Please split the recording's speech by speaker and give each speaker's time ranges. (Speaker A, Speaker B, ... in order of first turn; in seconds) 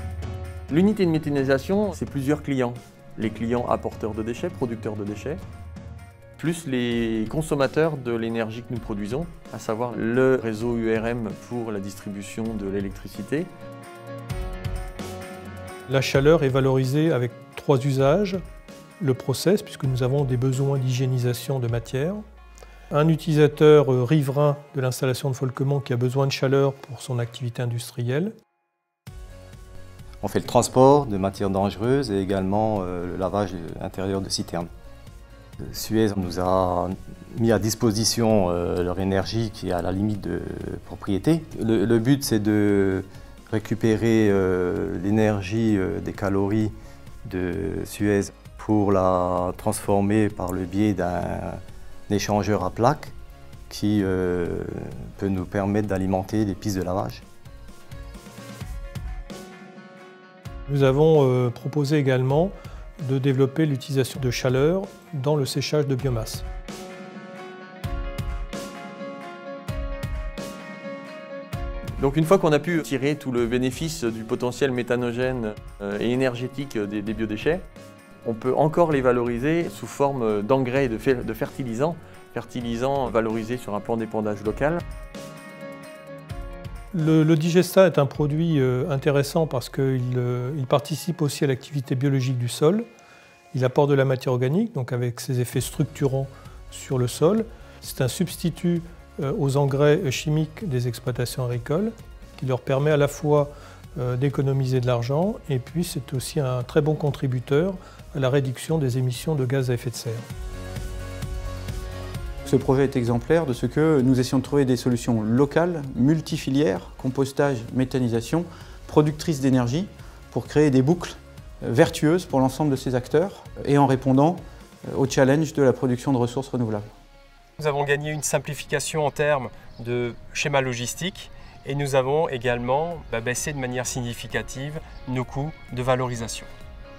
Speaker A: 0.7-5.4, 6.4-13.5, 72.0-77.6, 78.2-84.8
Speaker B: 15.9-18.4, 19.0-22.2, 22.9-28.3, 60.7-66.4, 86.9-92.8, 93.5-110.3
Speaker C: 30.2-34.7, 35.6-46.7, 47.2-53.1, 53.7-57.2
Speaker D: 112.4-126.9
Speaker E: 127.6-136.5